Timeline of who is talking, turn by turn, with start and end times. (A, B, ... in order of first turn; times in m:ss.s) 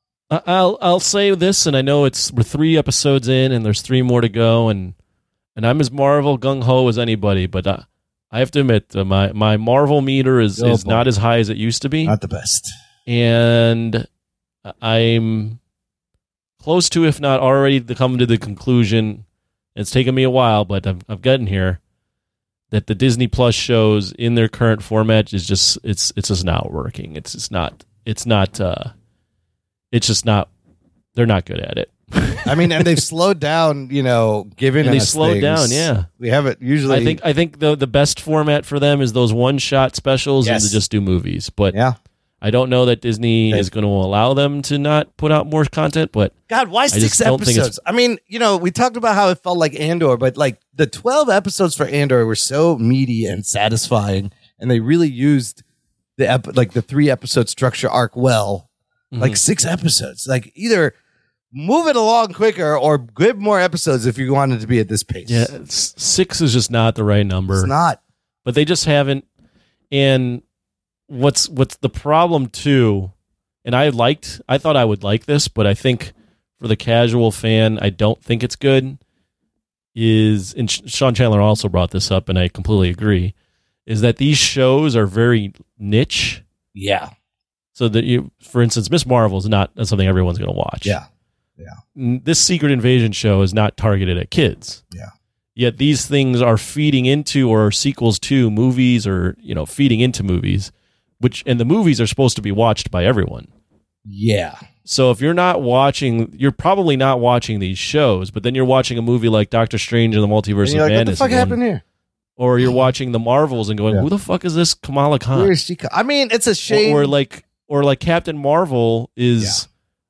0:00.3-0:05.0 A
0:05.6-0:12.2 A
0:10.6-0:11.1 B
0:12.0-0:12.7 B
0:13.1-0:14.1 A
0:14.7-0:15.6 A
0:16.6-0:19.2 A
0:19.8-0:21.8 A
0:22.7-0:28.9 A
0:29.9-0:30.5 A
0:31.2-0:32.9 A
0:32.4-0:37.2 B
0:34.8-0:36.1 A
0:36.9-0:41.8 A
0:40.4-0:40.8 B
0:42.4-0:46.3 A
0:46.5-0:55.6 B
0:46.9-0:47.7 A
0:56.2-0:58.7 B
0:59.1-0:59.4 A
0:59.2-1:00.9 B
1:01.5-1:05.5 B
1:05.3-1:07.7 A
1:07.5-1:08.0 B
1:08.5-1:09.2 A
1:09.9-1:10.4 A
1:11.1-1:13.1 A
1:13.6-1:19.0 A
1:20.0-1:23.3 A
1:23.9-1:26.4 A
1:26.8-1:27.1 B
1:27.8-1:31.0 A
1:32.0-1:34.8 A
1:35.6-1:43.5 A
1:44.1-1:44.6 B
1:44.9-1:51.6 A
1:50.6-1:51.8 B
1:52.4-1:55.5 A
1:55.3-1:57.1 B
1:56.7-1:59.6 A